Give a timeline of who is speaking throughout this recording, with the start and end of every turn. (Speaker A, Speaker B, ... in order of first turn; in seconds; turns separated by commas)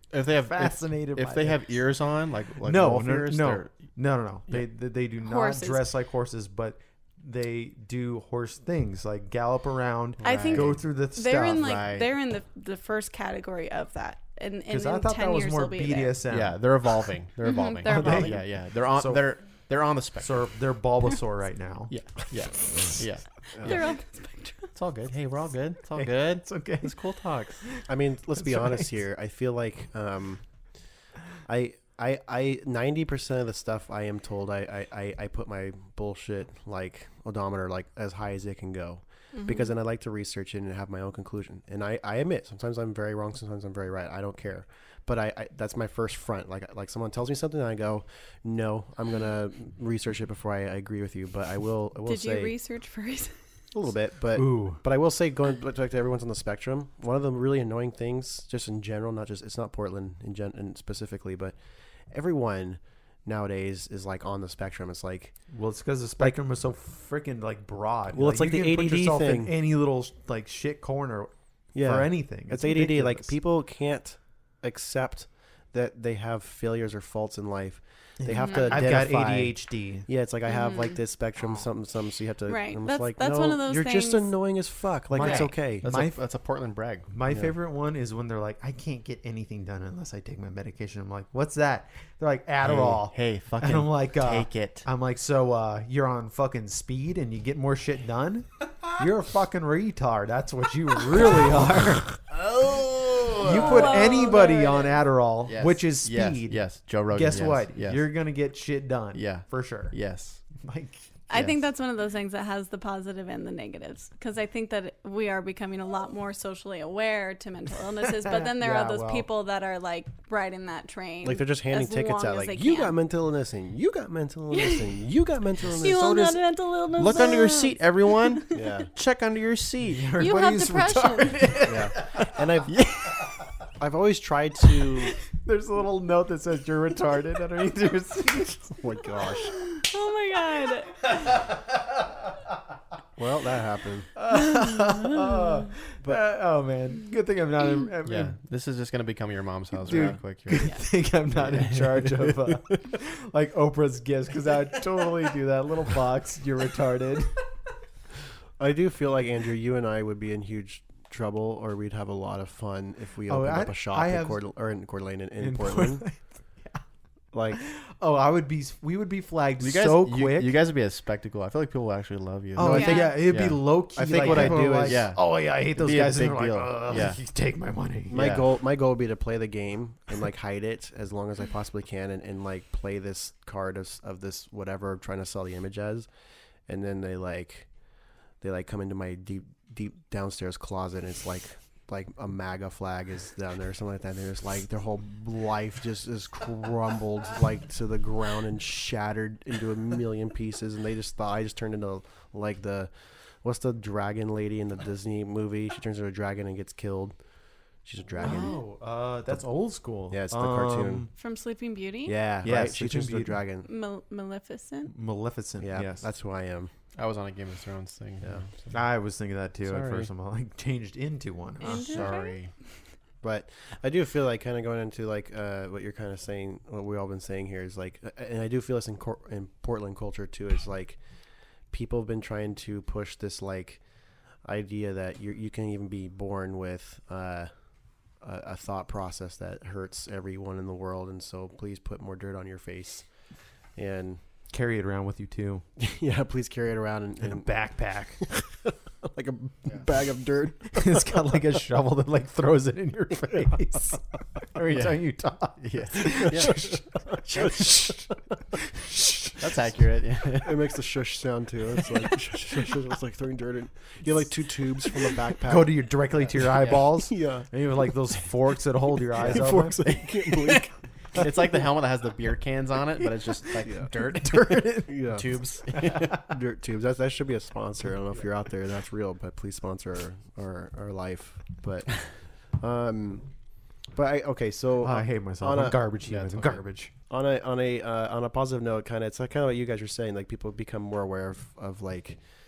Speaker A: 0.1-3.8, Speaker B: 0.5-1.6, Speaker B: 2.6-11.7, Speaker C: 5.2-5.8, Speaker A: 10.2-10.8, Speaker C: 10.2-16.2, Speaker A: 11.5-12.1, Speaker B: 14.7-16.6, Speaker A: 16.3-20.4, Speaker C: 17.4-18.4, Speaker B: 17.8-19.3, Speaker B: 20.2-22.0, Speaker A: 21.9-23.8, Speaker C: 23.6-24.7, Speaker A: 24.7-27.6, Speaker B: 25.9-27.0, Speaker B: 27.6-28.9, Speaker D: 27.9-30.4, Speaker D: 31.4-52.5, Speaker C: 39.3-39.7, Speaker C: 52.0-53.4, Speaker D: 53.7-61.6, Speaker B: 54.4-54.8, Speaker D: 62.1-65.4, Speaker B: 65.5-73.3, Speaker D: 68.1-69.5, Speaker D: 71.7-85.9, Speaker B: 78.2-80.1, Speaker C: 78.3-78.8, Speaker C: 80.5-81.0, Speaker C: 82.5-84.3, Speaker A: 85.1-87.1, Speaker B: 85.2-86.2, Speaker B: 87.1-102.3, Speaker D: 87.3-87.5, Speaker A: 92.6-94.9, Speaker A: 102.3-104.1, Speaker B: 103.4-110.0, Speaker C: 103.5-105.0, Speaker A: 105.5-108.1, Speaker A: 109.1-110.4, Speaker B: 110.6-111.0, Speaker C: 111.3-123.0, Speaker A: 111.3-111.6, Speaker B: 118.2-119.3, Speaker D: 121.2-126.4, Speaker C: 124.5-125.0, Speaker C: 125.6-128.6, Speaker A: 127.0-130.1, Speaker D: 128.5-128.9, Speaker B: 129.9-132.4, Speaker C: 130.2-131.7, Speaker D: 131.7-132.8, Speaker A: 132.7-133.3, Speaker D: 133.8-135.2, Speaker B: 135.3-138.8, Speaker D: 138.8-139.6, Speaker C: 139.7-141.2, Speaker B: 141.0-142.3, Speaker D: 143.2-144.1, Speaker B: 144.2-148.4, Speaker A: 148.1-150.8, Speaker B: 149.8-157.4, Speaker A: 151.3-152.3, Speaker D: 158.6-166.1, Speaker B: 163.3-164.4, Speaker B: 165.4-166.8, Speaker D: 167.3-167.6, Speaker B: 167.6-170.6, Speaker A: 169.6-177.2, Speaker B: 172.6-178.3, Speaker D: 172.6-173.2, Speaker C: 172.7-173.2, Speaker D: 174.0-175.1, Speaker D: 178.1-186.1, Speaker A: 178.1-178.5, Speaker D: 186.7-187.7, Speaker D: 188.4-202.9, Speaker D: 203.4-207.2, Speaker D: 207.8-208.6, Speaker B: 208.2-211.1, Speaker C: 208.2-208.5, Speaker D: 210.1-211.1, Speaker C: 211.2-212.2, Speaker D: 212.1-213.7, Speaker B: 212.4-213.4, Speaker C: 213.7-214.9, Speaker B: 214.9-216.1, Speaker D: 215.6-216.7, Speaker A: 216.9-218.8, Speaker B: 218.7-222.0, Speaker A: 219.6-220.1, Speaker C: 221.6-222.4, Speaker A: 221.8-222.5, Speaker D: 223.2-231.0, Speaker D: 231.7-233.8, Speaker D: 234.4-237.5, Speaker D: 238.2-243.1, Speaker D: 243.8-244.2, Speaker B: 244.5-245.6, Speaker D: 245.8-247.8, Speaker B: 247.2-248.4, Speaker D: 249.0-251.3, Speaker B: 250.7-259.4, Speaker A: 254.7-255.0, Speaker A: 255.6-256.6, Speaker D: 257.4-257.9, Speaker A: 259.4-260.7, Speaker D: 260.4-267.5, Speaker B: 265.5-269.9, Speaker D: 269.2-271.3, Speaker A: 269.2-270.6, Speaker A: 271.2-276.1, Speaker B: 273.4-275.0, Speaker D: 274.9-275.3, Speaker B: 275.7-276.2, Speaker D: 276.1-283.3, Speaker D: 283.9-286.5, Speaker B: 284.8-286.9, Speaker A: 286.1-286.6, Speaker D: 287.1-292.2